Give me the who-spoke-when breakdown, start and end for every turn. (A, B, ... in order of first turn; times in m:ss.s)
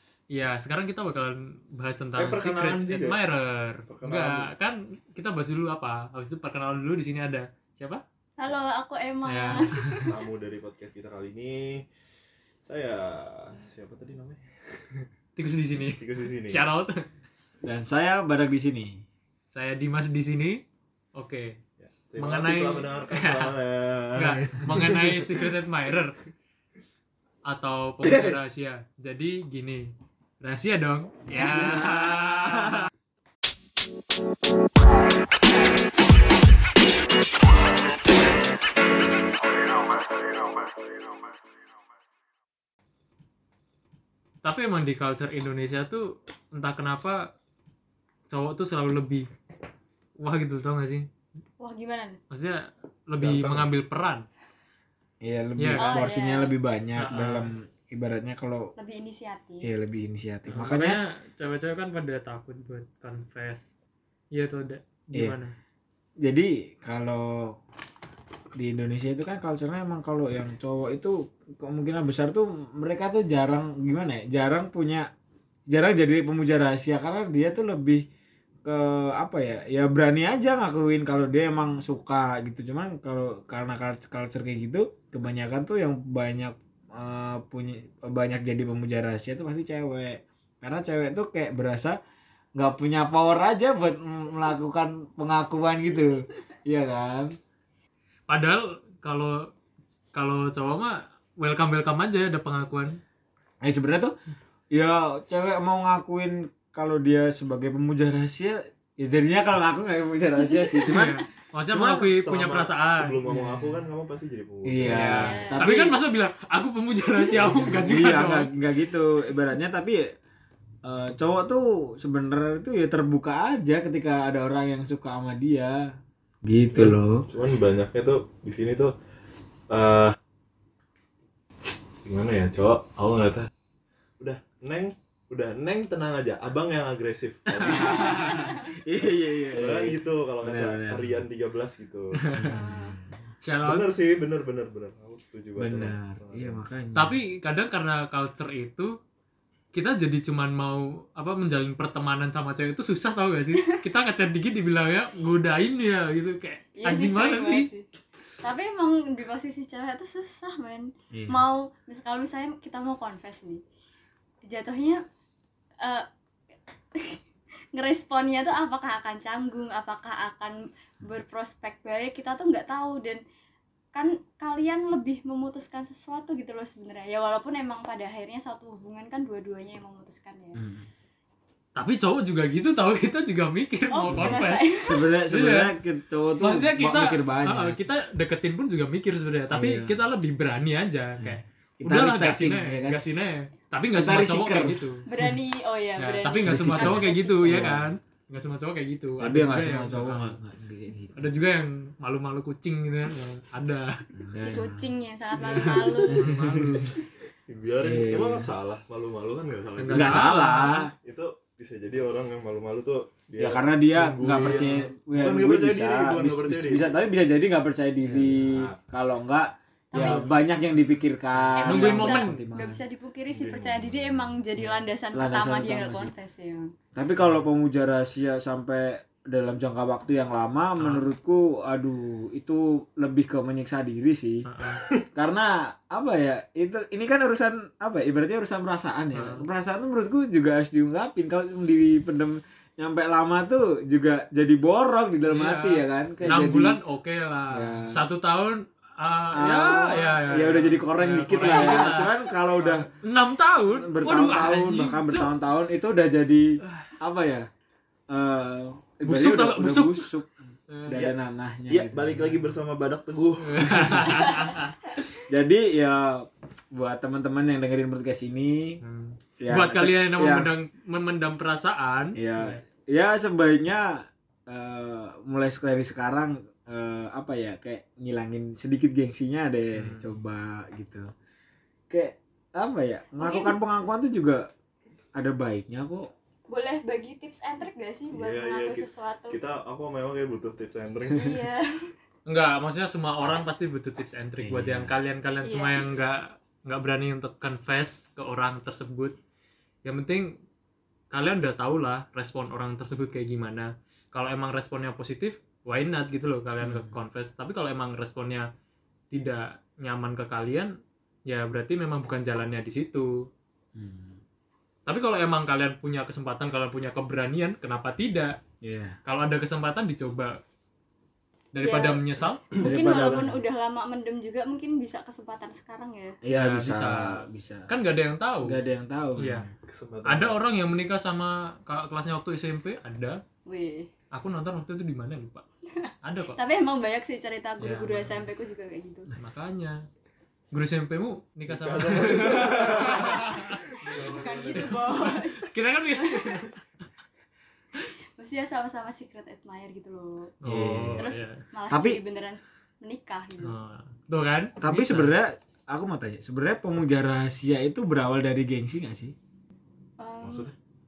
0:00.3-0:08.0 A
0:02.2-0:03.2 B
0:03.9-0:04.5 B
0:08.4-0:10.2 C
0:09.3-0:10.0 A
0:10.0-0:11.9 B
0:12.6-0:15.1 B
0:15.4-0:17.0 A
0:15.9-0:16.7 B
0:17.6-0:19.0 D
0:19.5-0:20.6 A
0:21.2-0:21.6 A
0:21.8-0:25.5 B
0:22.2-0:23.5 A
0:24.2-0:26.2 A
0:27.5-0:32.8 A
0:31.3-0:32.8 D
0:44.4-0:47.3 A
0:48.3-0:49.3 A
0:50.2-0:51.1 A
0:51.6-0:52.2 C
0:52.3-0:54.3 A
0:53.2-0:53.7 D
0:55.2-0:58.7 D
0:55.6-0:56.0 A
0:55.8-0:56.5 C
0:57.0-0:57.5 A
0:58.8-0:59.7 C
0:59.6-1:01.0 D
1:00.5-1:03.7 A
1:04.3-1:05.6 A
1:06.2-1:07.6 D
1:08.6-1:15.1 D
1:15.7-1:18.0 D
1:18.6-1:32.0 D
1:32.6-1:37.3 D
1:38.3-1:39.5 A
1:40.2-1:43.0 A
1:43.6-1:44.1 D
1:44.7-1:52.1 D
1:50.4-1:51.0 C
1:50.8-1:53.6 A
1:52.1-1:55.2 B
1:54.7-1:56.0 D
1:54.8-1:58.5 A
1:55.1-1:55.7 C
1:57.4-2:00.0 D
2:00.8-2:05.8 D
2:06.4-2:07.2 D
2:06.7-2:08.9 B
2:09.7-2:10.2 B
2:12.0-2:13.5 B
2:14.2-2:18.4 B
2:17.6-2:18.5 A
2:17.7-2:18.7 C
2:17.9-2:21.2 D
2:19.5-2:22.5 B
2:22.3-2:22.6 A
2:22.5-2:23.2 D
2:22.5-2:23.0 C
2:23.4-2:23.9 A
2:23.6-2:26.6 B
2:25.6-2:27.2 D
2:27.0-2:28.9 A
2:29.7-2:37.7 A
2:36.8-2:37.9 C
2:38.4-2:43.6 C
2:41.1-2:41.4 D
2:44.5-2:45.0 C
2:45.8-2:46.1 C
2:47.0-2:47.2 C
2:47.7-2:53.2 C
2:53.9-3:00.6 C
3:00.6-3:00.9 D
3:01.8-3:05.7 A
3:03.9-3:05.1 C
3:04.1-3:07.8 D
3:06.4-3:15.1 A
3:09.5-3:10.0 D
3:11.2-3:13.0 D
3:13.9-3:14.8 D
3:15.1-3:17.8 C
3:16.0-3:20.4 A
3:16.3-3:17.9 D
3:19.2-3:21.4 D
3:21.2-3:24.0 A
3:24.2-3:24.9 D
3:24.4-3:26.2 C
3:25.4-3:26.9 B
3:26.0-3:26.9 A
3:26.1-3:26.9 D
3:27.5-3:36.9 B
3:27.8-3:28.5 D
3:29.8-3:30.9 A
3:29.9-3:30.9 D
3:33.4-3:42.8 D
3:38.0-3:38.4 A
3:38.4-3:38.8 B
3:39.9-3:40.4 C
3:39.9-3:40.3 A
3:41.3-3:42.4 A
3:41.6-3:46.7 C
3:43.3-3:44.4 B
3:45.1-3:46.1 D
3:47.0-3:54.4 D
3:47.2-3:47.5 A
3:50.8-3:51.1 A
3:54.4-3:54.8 A
3:55.2-4:06.8 D
3:59.1-3:59.5 A
4:05.3-4:15.3 A
4:07.5-4:08.0 D
4:09.3-4:12.9 D
4:13.7-4:17.5 D
4:16.6-4:16.9 A
4:18.1-4:22.4 D
4:19.0-4:20.1 A
4:20.7-4:21.0 A
4:20.9-4:21.2 B
4:21.7-4:24.4 B
4:23.4-4:25.0 A
4:25.3-4:28.8 D
4:28.8-4:32.6 A
4:29.4-4:30.5 D
4:32.2-4:41.1 D
4:39.7-4:40.2 A
4:41.9-4:44.5 D
4:43.2-4:43.6 C
4:45.2-4:46.1 D
4:46.5-4:49.4 C
4:48.1-4:51.5 B
4:51.1-4:51.9 C
4:52.3-4:59.2 A
4:54.4-4:55.0 D
4:55.4-4:55.9 C
4:59.8-5:00.3 A
5:01.1-5:08.5 A
5:06.6-5:07.0 D
5:09.1-5:10.7 A
5:11.3-5:13.3 A
5:13.8-5:14.2 D
5:14.9-5:18.4 A
5:18.6-5:19.0 D
5:19.1-5:20.4 A
5:21.5-5:22.5 A
5:21.6-5:26.2 C
5:22.6-5:23.4 D
5:26.2-5:27.7 D
5:26.3-5:28.6 A
5:28.4-5:29.5 D
5:29.2-5:29.5 A
5:29.7-5:30.4 B
5:30.1-5:33.2 A
5:33.5-5:33.9 C
5:34.1-5:35.4 A
5:35.8-5:39.1 C
5:36.0-5:36.4 A
5:37.6-5:38.3 A
5:39.2-5:39.8 A
5:40.5-5:46.6 A
5:41.5-5:44.4 B
5:43.0-5:46.5 C
5:48.2-5:50.3 C
5:50.4-5:51.3 A
5:50.5-5:51.1 D
5:51.0-5:53.6 C
5:51.7-5:52.0 D
5:53.4-5:55.2 A
5:54.6-5:59.1 D
6:00.0-6:00.5 C
6:00.2-6:00.6 B